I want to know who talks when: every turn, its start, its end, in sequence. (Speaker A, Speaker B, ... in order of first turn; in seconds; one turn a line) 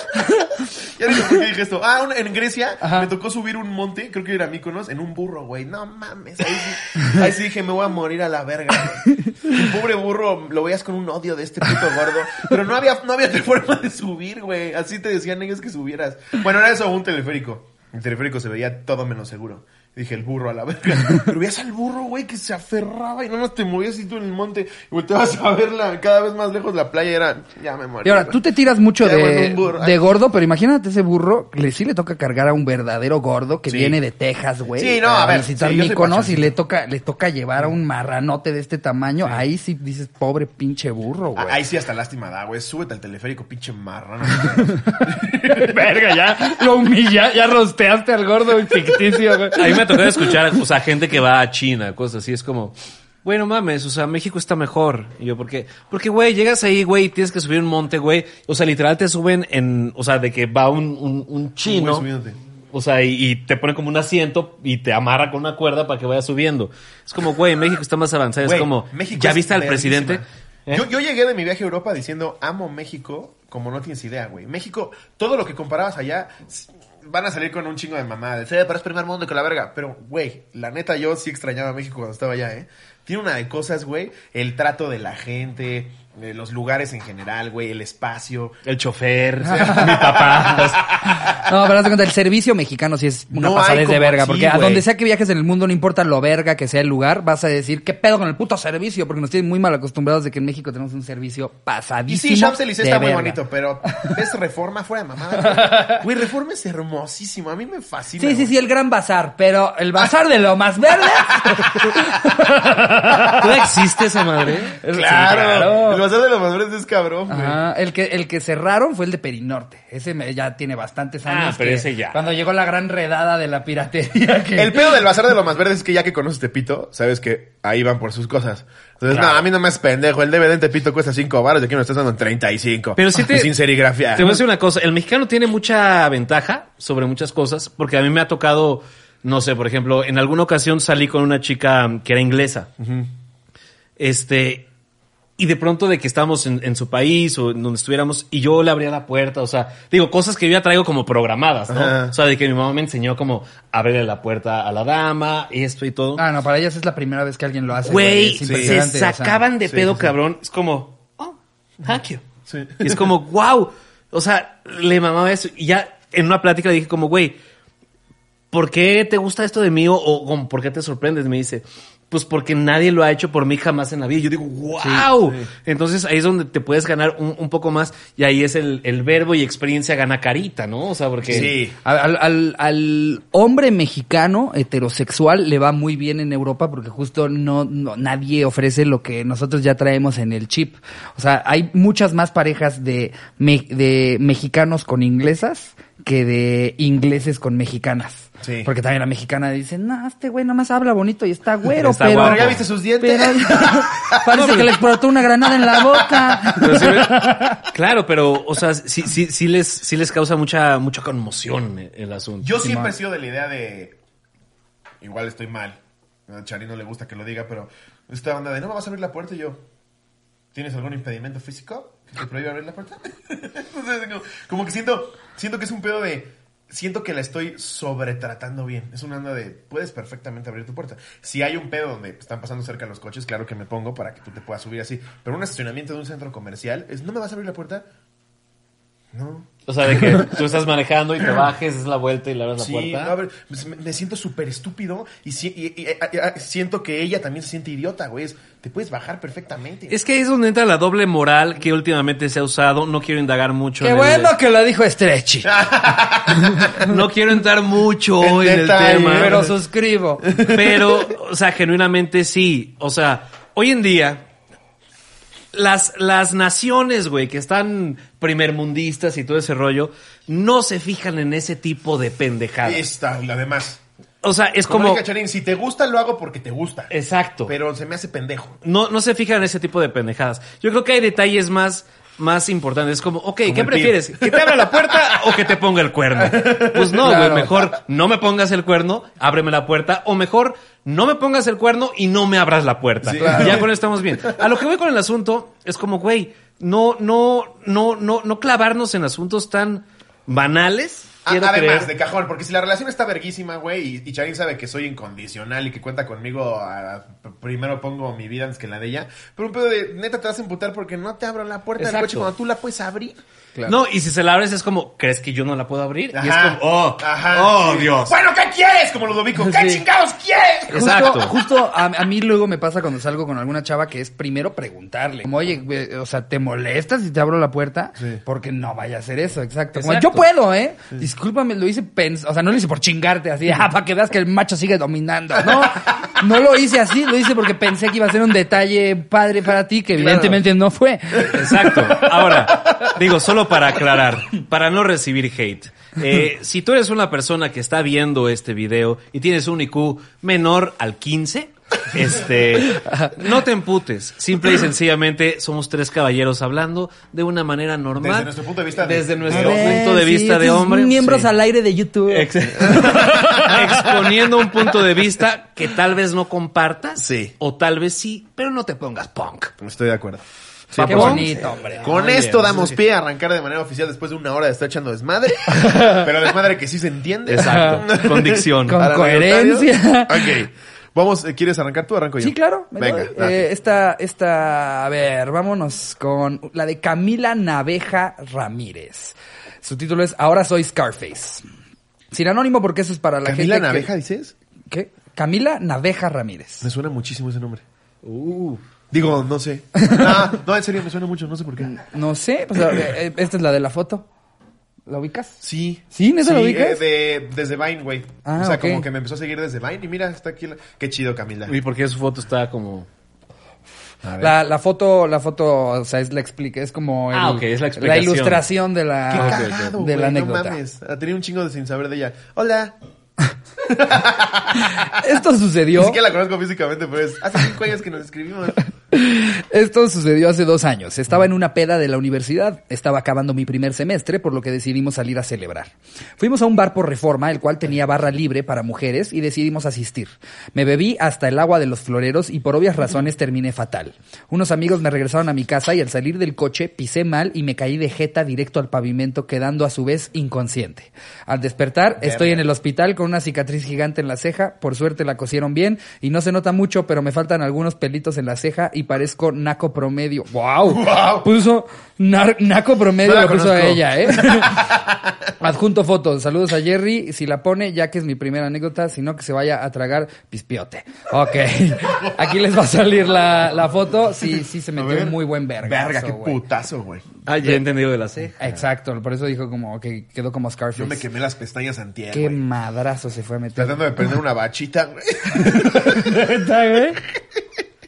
Speaker A: 0.2-0.5
Speaker B: 0.6-28.4
Speaker A: 2.8-3.1
Speaker A: 28.0-41.6
Speaker B: 28.9-30.0
Speaker B: 33.7-34.0
Speaker B: 34.7-36.5
Speaker B: 41.3-45.9
Speaker A: 44.6-50.4
Speaker C: 49.5-62.1
Speaker B: 61.6-62.4
Speaker C: 62.7-70.8
Speaker B: 68.4-88.6
Speaker C: 88.6-91.0
Speaker A: 89.4-103.4
Speaker B: 89.5-91.3
Speaker B: 93.3-94.8
Speaker B: 102.1-108.5
Speaker A: 105.5-106.0
Speaker A: 108.2-113.7
Speaker B: 111.4-111.9
Speaker C: 113.3-115.7
Speaker A: 114.8-116.0
Speaker B: 114.9-117.6
Speaker A: 117.3-125.0
Speaker C: 121.2-122.2
Speaker B: 124.5-134.4
Speaker C: 129.1-129.4
Speaker C: 133.0-142.7
Speaker B: 142.8-143.1
Speaker C: 144.0-144.7
Speaker C: 145.4-156.2
Speaker B: 151.7-152.2
Speaker A: 156.2-159.4
Speaker C: 157.8-162.2
Speaker B: 158.4-158.8
Speaker B: 159.6-160.1
Speaker B: 162.5-163.1
Speaker C: 162.8-167.4
Speaker C: 168.5-181.6
Speaker A: 174.8-175.1
Speaker B: 175.2-175.5
Speaker B: 181.3-181.8
Speaker A: 181.3-202.5
Speaker B: 198.4-198.7
Speaker C: 201.8-202.6
Speaker B: 202.1-204.2
Speaker A: 203.0-207.7
Speaker C: 204.3-204.8
Speaker B: 205.7-206.5
Speaker C: 206.5-212.6
Speaker B: 212.4-213.9
Speaker A: 212.6-212.9
Speaker B: 215.0-219.6
Speaker B: 220.5-237.9
Speaker B: 239.1-239.5
Speaker C: 239.7-243.2
Speaker B: 240.0-240.3
Speaker B: 242.6-250.0
Speaker C: 249.9-254.3
Speaker A: 253.8-255.5
Speaker B: 255.4-256.7
Speaker A: 256.5-256.8
Speaker C: 256.7-259.4
Speaker B: 258.2-259.5
Speaker A: 259.1-260.3
Speaker B: 260.2-261.1
Speaker C: 260.4-264.2
Speaker C: 265.5-272.9
Speaker B: 272.6-273.8
Speaker C: 274.2-275.0
Speaker B: 274.7-276.9
Speaker C: 276.9-277.5
Speaker B: 277.4-278.6
Speaker C: 278.6-301.9
Speaker B: 283.4-285.5
Speaker B: 286.2-287.6
Speaker A: 287.0-287.5
Speaker B: 293.0-293.7
Speaker A: 293.2-293.6
Speaker B: 301.2-313.2
Speaker C: 311.8-312.3
Speaker C: 313.6-318.1
Speaker B: 316.1-321.1
Speaker A: 319.4-319.8
Speaker A: 320.7-342.0
Speaker C: 320.7-321.3
Speaker C: 329.7-330.2
Speaker B: 340.0-340.3
Speaker C: 341.2-361.3
Speaker B: 341.8-342.2
Speaker A: 352.6-353.1
Speaker B: 358.0-359.9
Speaker A: 359.3-363.6
Speaker C: 362.1-369.5
Speaker B: 362.6-364.1
Speaker B: 367.0-367.3
Speaker B: 369.6-383.5
Speaker C: 370.7-372.8
Speaker A: 370.8-371.9
Speaker A: 375.5-376.1
Speaker C: 377.2-378.8
Speaker A: 377.4-377.9
Speaker A: 378.7-380.4
Speaker A: 382.2-391.4
Speaker A: 392.1-393.9
Speaker B: 393.2-394.3
Speaker A: 394.7-396.6
Speaker B: 396.6-397.6
Speaker C: 398.0-398.6
Speaker B: 398.9-401.8
Speaker A: 399.8-400.1
Speaker A: 401.6-404.1
Speaker A: 404.9-405.4
Speaker B: 405.4-411.6
Speaker A: 405.9-406.8
Speaker A: 408.2-408.9
Speaker C: 411.5-412.9
Speaker B: 414.0-414.3
Speaker A: 414.2-420.6
Speaker C: 417.1-418.4
Speaker B: 419.1-422.8
Speaker C: 419.1-419.7
Speaker B: 423.6-424.9
Speaker A: 424.6-426.0
Speaker B: 425.7-428.6
Speaker A: 428.9-464.7
Speaker B: 452.0-452.4
Speaker B: 460.6-461.3
Speaker B: 463.0-465.3
Speaker A: 465.4-476.4
Speaker B: 474.8-477.0
Speaker C: 477.2-478.4
Speaker A: 478.4-481.0
Speaker B: 480.8-482.4
Speaker A: 482.1-484.1
Speaker B: 483.6-486.4
Speaker A: 485.4-487.0